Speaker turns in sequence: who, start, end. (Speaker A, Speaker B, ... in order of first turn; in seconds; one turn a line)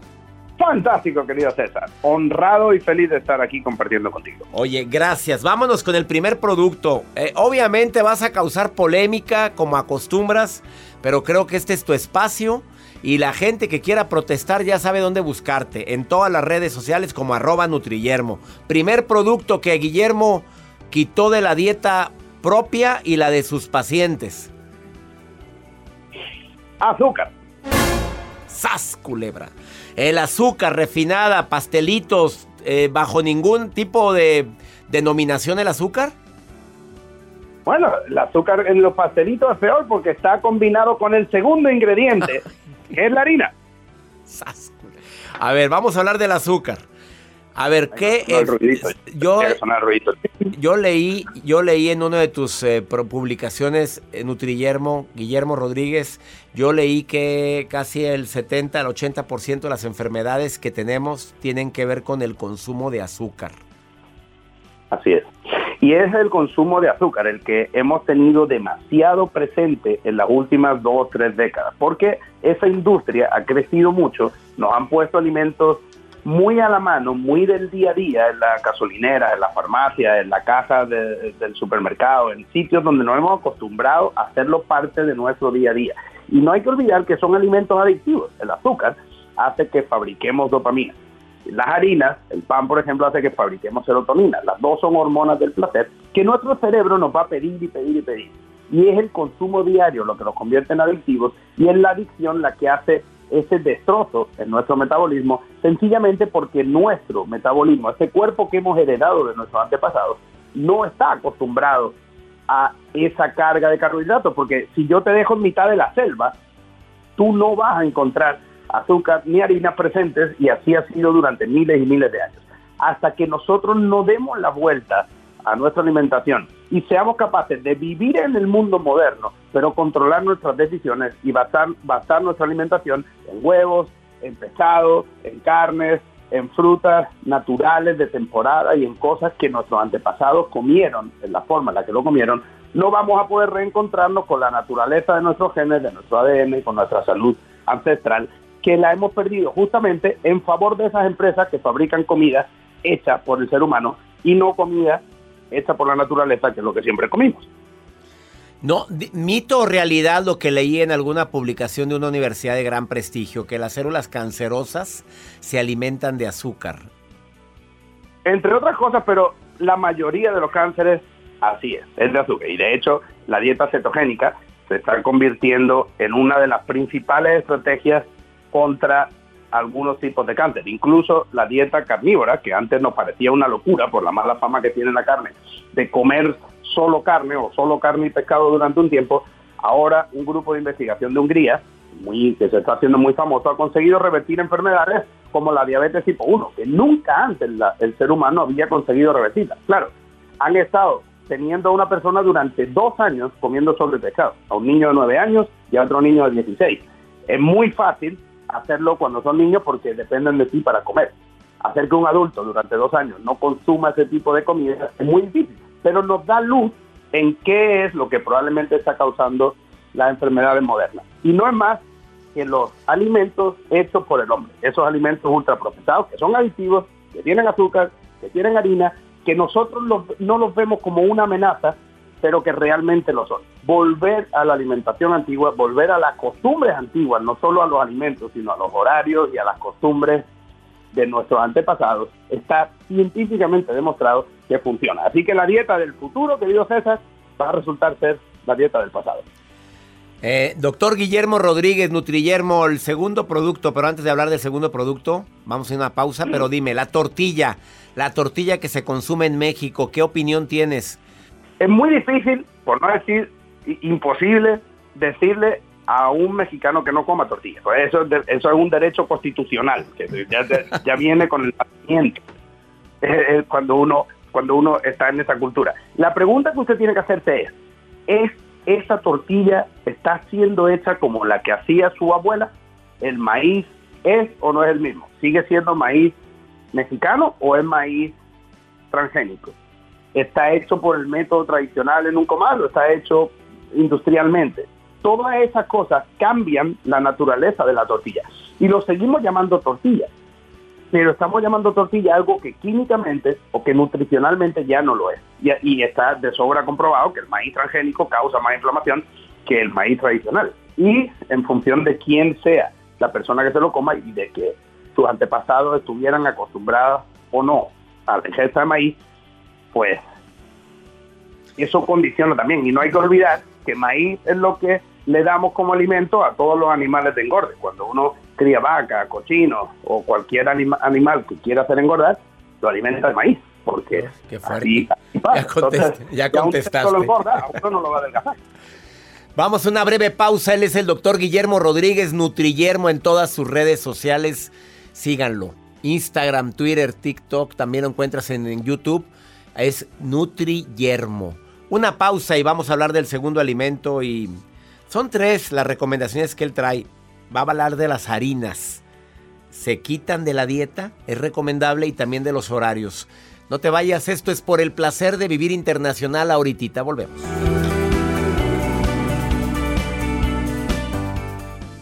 Speaker A: 0.6-4.5
Speaker B: 4.5-24.5
Speaker A: 26.8-27.3
Speaker B: 28.5-36.1
Speaker A: 37.7-43.5
Speaker B: 44.3-46.9
Speaker B: 47.5-49.6
Speaker A: 48.0-50.5
Speaker B: 50.5-63.6
Speaker A: 64.9-112.0
Speaker A: 112.5-116.3
Speaker A: 117.2-157.5
Speaker B: 158.6-166.9
Speaker A: 168.2-221.8
Speaker A: 222.3-240.2
Speaker A: 240.9-249.2
Speaker B: 250.2-261.0
Speaker A: 261.6-272.2
Speaker A: 273.0-277.5
Speaker A: 278.1-286.1
Speaker A: 286.7-288.1
Speaker A: 288.9-289.5
Speaker A: 290.1-300.1
Speaker A: 300.9-319.0
Speaker A: 319.7-320.0
Speaker A: 321.6-334.1
Speaker B: 333.9-337.1
Speaker A: 334.6-338.4
Speaker B: 339.4-358.8
Speaker B: 359.5-367.3